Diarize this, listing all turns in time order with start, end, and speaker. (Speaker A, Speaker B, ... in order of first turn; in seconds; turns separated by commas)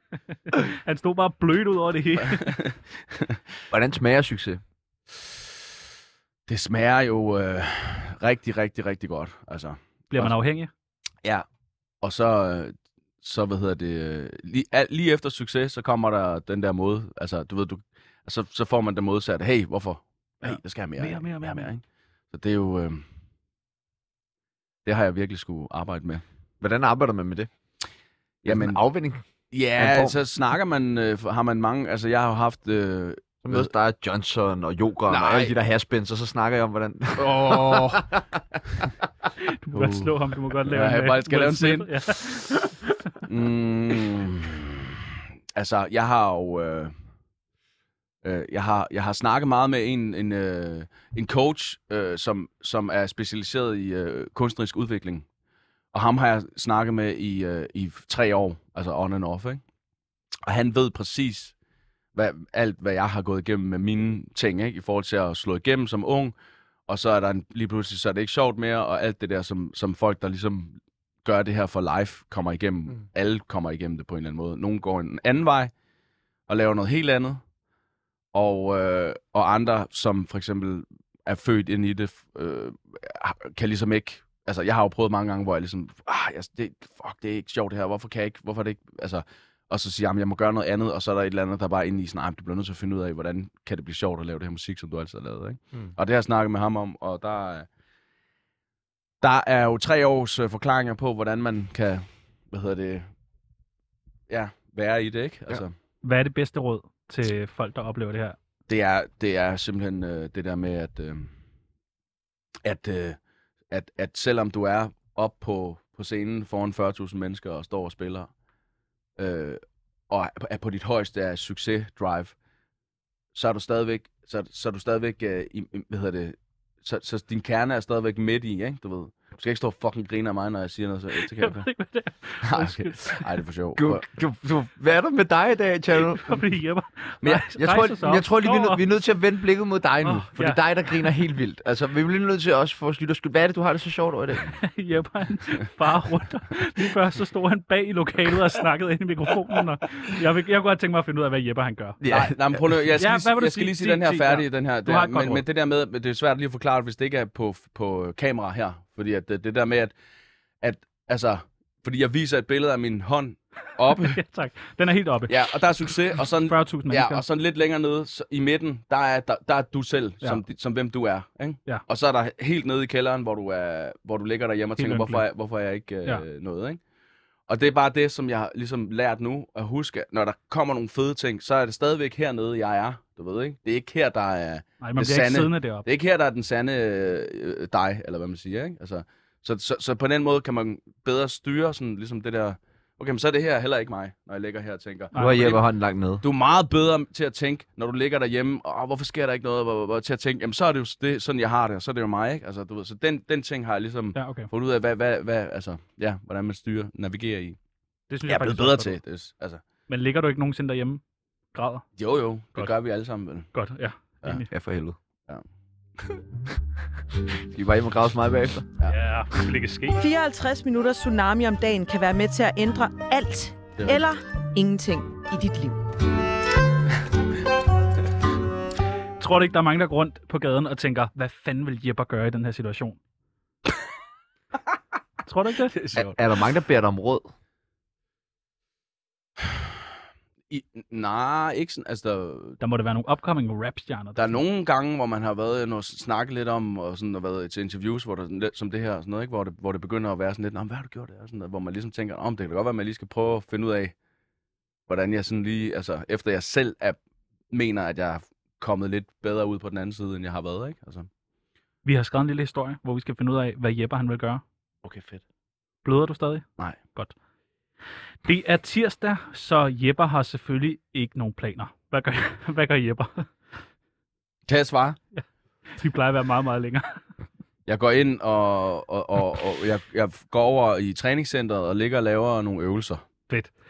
Speaker A: 0.5-2.6, Speaker B: 2.3-3.3, Speaker C: 3.7-4.6, Speaker B: 6.5-10.3, Speaker A: 10.1-10.7, Speaker B: 12.0-23.0, Speaker A: 20.4-21.7, Speaker B: 24.8-26.2, Speaker C: 26.6-27.5, Speaker B: 28.4-28.8, Speaker C: 28.4-29.2, Speaker B: 29.5-33.7, Speaker C: 29.8-30.2, Speaker C: 33.4-38.2, Speaker B: 35.1-35.5, Speaker B: 37.2-38.1, Speaker A: 39.4-42.7, Speaker B: 39.7-40.1, Speaker B: 40.6-42.5, Speaker B: 43.2-45.0, Speaker B: 45.5-46.9, Speaker B: 48.2-55.2, Speaker B: 55.9-59.6, Speaker B: 60.5-61.5, Speaker B: 62.1-66.3, Speaker B: 66.9-75.7, Speaker B: 76.5-77.4, Speaker B: 78.3-97.7, Speaker B: 99.2-103.1, Speaker B: 104.3-105.7, Speaker A: 106.0-108.3, Speaker B: 108.7-111.3, Speaker B: 112.6-113.2, Speaker B: 113.7-118.3, Speaker B: 119.2-122.3, Speaker B: 123.3-131.7, Speaker A: 131.2-133.3, Speaker B: 132.4-134.0, Speaker C: 133.8-136.4, Speaker A: 136.1-138.8, Speaker C: 137.6-144.6, Speaker A: 140.0-140.6, Speaker A: 144.6-152.0, Speaker C: 152.0-152.6, Speaker B: 152.1-159.9, Speaker A: 153.0-155.4, Speaker B: 160.6-164.2, Speaker A: 163.9-165.5, Speaker B: 165.3-176.8, Speaker A: 166.2-167.2, Speaker A: 174.8-175.2, Speaker B: 177.5-195.6, Speaker A: 184.8-185.8, Speaker A: 195.1-195.6, Speaker C: 195.2-196.2, Speaker B: 196.2-207.6, Speaker A: 204.1-204.5, Speaker A: 208.1-209.0, Speaker B: 208.2-209.6, Speaker A: 209.9-211.0, Speaker A: 211.5-211.9, Speaker B: 212.0-213.5, Speaker A: 213.5-214.5, Speaker C: 214.5-215.0, Speaker C: 217.3-218.7, Speaker A: 218.8-220.0, Speaker D: 220.0-225.8, Speaker B: 223.8-224.0, Speaker A: 229.2-233.0, Speaker A: 235.2-235.7, Speaker B: 235.7-236.2, Speaker C: 235.9-237.3, Speaker B: 240.5-242.6, Speaker A: 242.6-244.3, Speaker B: 244.2-253.9, Speaker B: 254.9-257.0, Speaker B: 257.5-261.1, Speaker A: 261.8-264.4, Speaker B: 264.8-265.2, Speaker A: 265.8-267.1, Speaker A: 268.2-273.3, Speaker B: 274.5-275.0, Speaker A: 275.7-277.0, Speaker B: 277.7-283.0